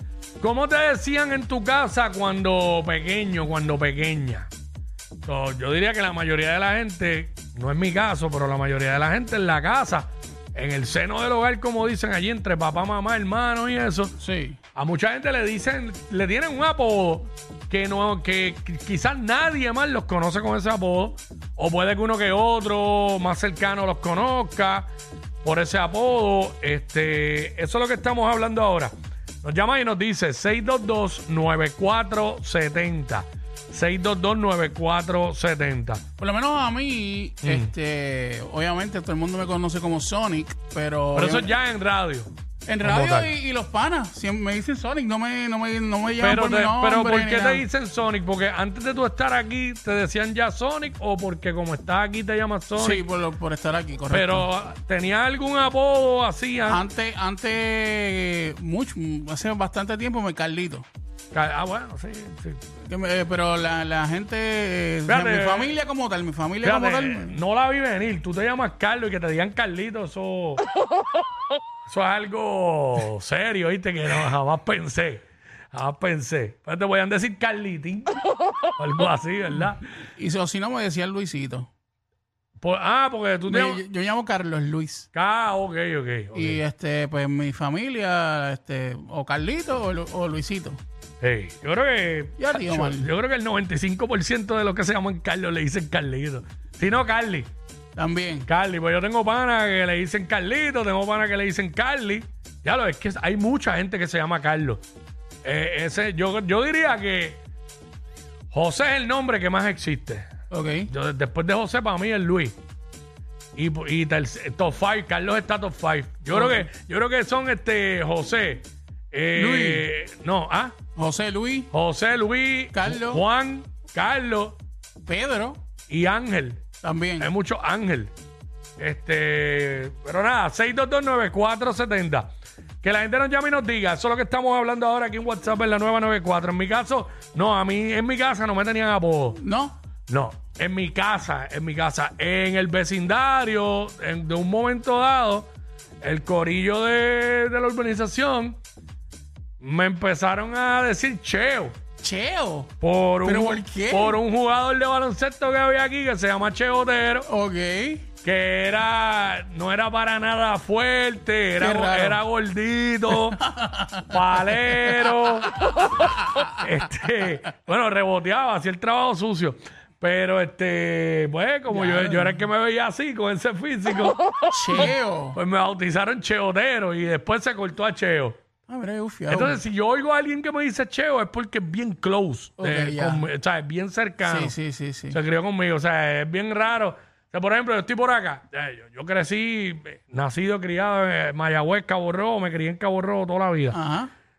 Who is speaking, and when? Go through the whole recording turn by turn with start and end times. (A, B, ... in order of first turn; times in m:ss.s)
0:00.4-0:04.5 A
0:05.2-0:14.1 A
0:14.2-0:14.6 B
0:14.7-0:24.9 A
0:25.4-0:36.0 A
0:36.2-0:41.5 B
0:37.4-0:37.7 A
0:41.1-0:42.3 A
0:42.7-0:47.7 B
0:42.8-0:43.3 A
0:46.2-0:53.0 A
0:52.8-0:54.5 B
0:54.1-0:56.8 A
0:56.7-1:00.9 B
1:01.3-1:02.6 A
1:02.8-1:07.4 B
1:05.1-1:05.7 A
1:06.6-1:10.6 A
1:11.9-1:18.2 A
1:18.8-1:19.9 A
1:20.2-1:21.7 B
1:22.6-1:23.8 A
1:23.5-1:25.1 B
1:25.1-1:26.6 A
1:26.3-1:30.8 B
1:31.2-1:37.5 A
1:32.4-1:33.1 B
1:38.0-1:38.5 B
1:38.4-1:44.8 A
1:45.4-1:47.4 A
1:48.5-1:50.3 A
1:50.5-1:50.9 B
1:50.9-1:52.5 A
1:53.6-2:00.7 A
1:56.3-1:56.7 B
1:59.3-1:59.9 B
2:01.0-2:01.7 B
2:01.7-2:04.6 A
2:02.7-2:03.2 B
2:05.1-2:05.6 B
2:05.9-2:06.6 A
2:06.8-2:07.3 B
2:07.2-2:08.1 A
2:08.8-2:12.3 A
2:12.8-2:19.4 A
2:19.4-2:19.8 B
2:20.1-2:25.5 A
2:26.0-2:28.6 A
2:29.6-2:31.8 A
2:32.0-2:32.7 B
2:32.8-2:37.3 A
2:33.2-2:34.2 B
2:37.3-2:38.1 B
2:38.2-2:43.4 A
2:41.6-2:42.2 B
2:43.1-2:45.1 B
2:44.1-2:54.2 A
2:51.7-2:52.4 B
2:54.5-2:55.4 B
2:54.7-2:58.4 A
2:58.7-2:59.6 B
2:59.3-3:04.5 A
3:02.6-3:03.2 B
3:04.2-3:05.2 B
3:05.1-3:13.8 A
3:13.7-3:14.1 B